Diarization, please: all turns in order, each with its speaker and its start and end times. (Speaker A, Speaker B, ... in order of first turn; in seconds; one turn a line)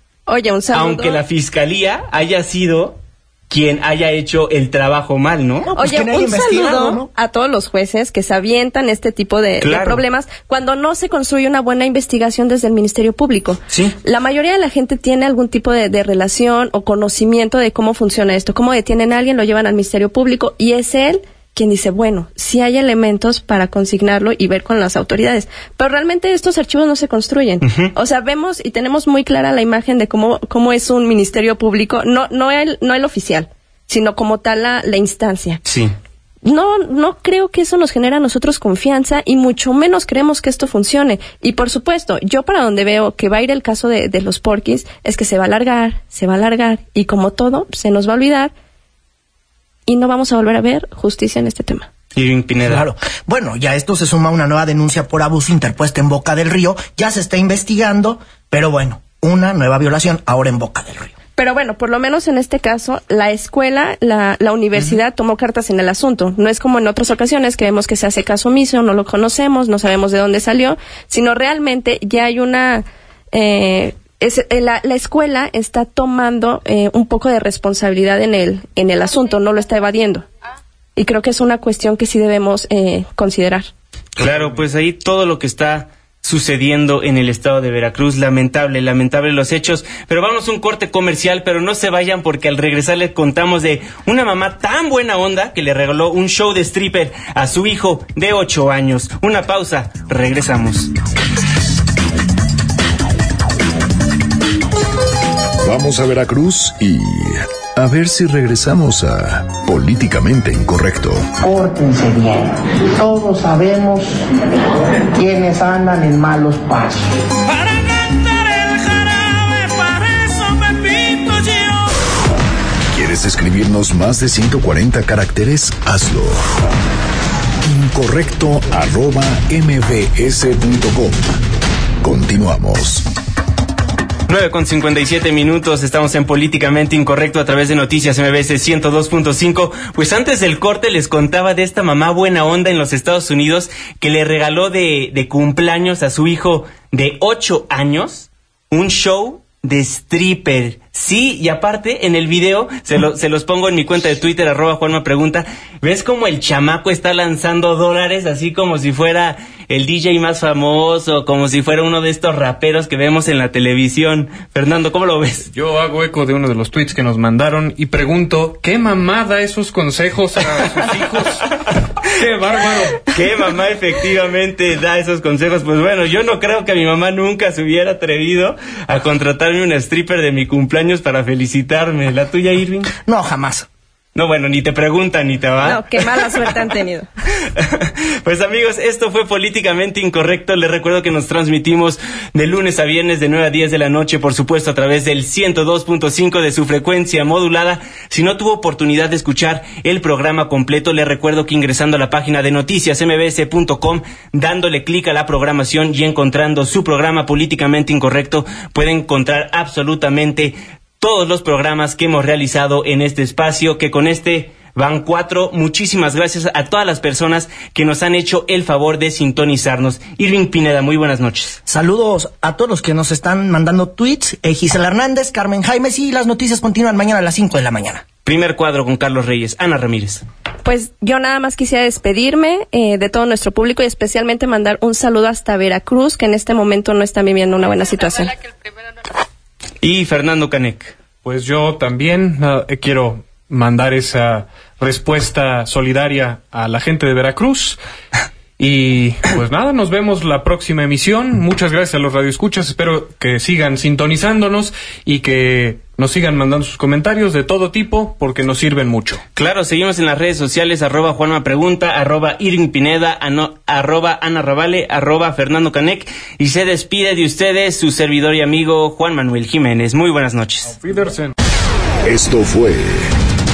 Speaker A: 0.3-1.2
Speaker B: 0.7-5.7
Speaker C: 5.7-7.1
Speaker A: 5.7-35.6
Speaker B: 9.6-10.0
Speaker B: 13.7-13.9
Speaker B: 27.6-27.9
Speaker B: 35.6-35.9
Speaker A: 36.4-48.5
Speaker A: 49.9-51.9
Speaker B: 52.2-52.8
Speaker C: 52.6-61.1
Speaker A: 61.4-80.2
Speaker A: 81.0-83.7
Speaker B: 84.2-100.9
Speaker D: 84.2-84.5
Speaker E: 105.6-111.3
Speaker F: 111.5-114.1
Speaker F: 115.2-117.0
Speaker G: 117.5-122.0
Speaker E: 122.9-126.4
Speaker E: 127.7-131.3
Speaker E: 132.0-133.1
Speaker B: 134.3-165.5
Speaker D: 165.5-171.5
Speaker D: 172.1-173.1
Speaker B: 173.1-182.9
Speaker C: 183.1-183.7
Speaker B: 184.2-186.6
Speaker A: 185.6-187.1
Speaker B: 187.6-221.6
Speaker C: 221.7-228.0
Speaker B: 228.2-230.2
Speaker A: 230.7-238.4
Speaker B: 239.8-241.0
Speaker D: 241.2-247.8
Speaker D: 248.6-259.2
Speaker B: 259.4-270.7
Speaker D: 270.7-271.3
Speaker E: 272.1-273.1